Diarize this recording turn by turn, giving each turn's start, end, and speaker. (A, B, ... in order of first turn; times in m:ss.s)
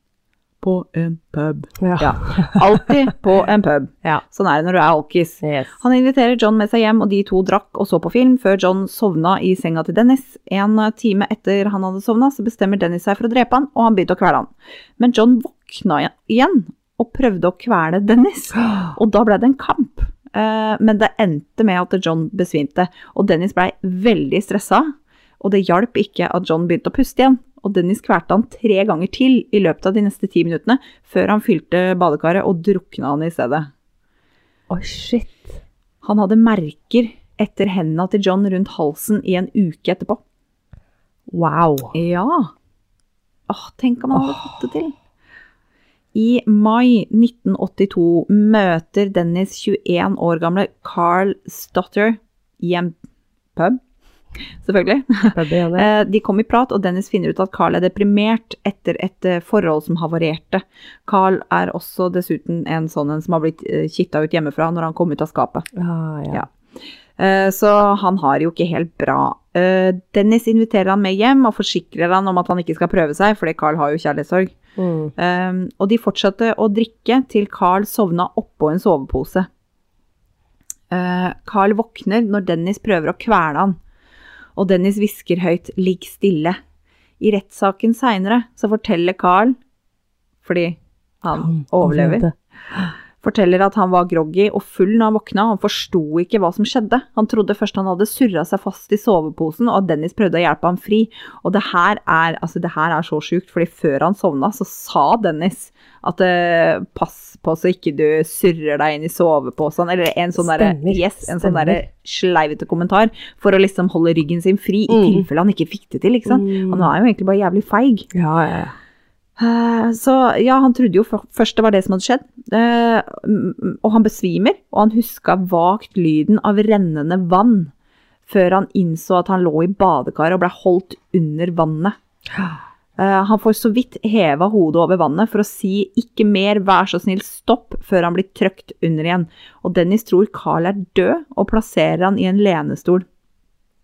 0:00.6-0:33.7 A
0:01.8-0:02.9 B
0:05.4-0:05.8 B
0:18.6-0:18.9 B
0:34.7-0:35.6 B
0:36.0-0:40.2 A
0:41.3-0:41.9 B
0:41.9-0:42.5 A
0:43.5-0:45.0 A
0:44.1-0:44.5 B
0:46.1-0:53.0 A
0:54.6-1:05.7 A
0:55.3-0:55.9 B
1:05.8-1:06.4 B
1:07.2-1:14.6 A
1:14.8-1:15.1 B
1:15.2-1:19.5 A
1:20.9-1:23.8 A
1:24.6-1:26.6 A
1:27.2-1:29.6 A
1:30.4-1:32.3 A
1:31.4-1:32.9 B
1:33.2-1:58.1 A
1:50.4-1:51.8 B
1:54.9-1:55.3 B
1:56.3-1:56.9 B
1:58.1-1:58.8 B
1:59.4-2:07.7 A
2:08.3-2:12.0 A
2:12.3-2:12.6 B
2:13.0-2:23.1 A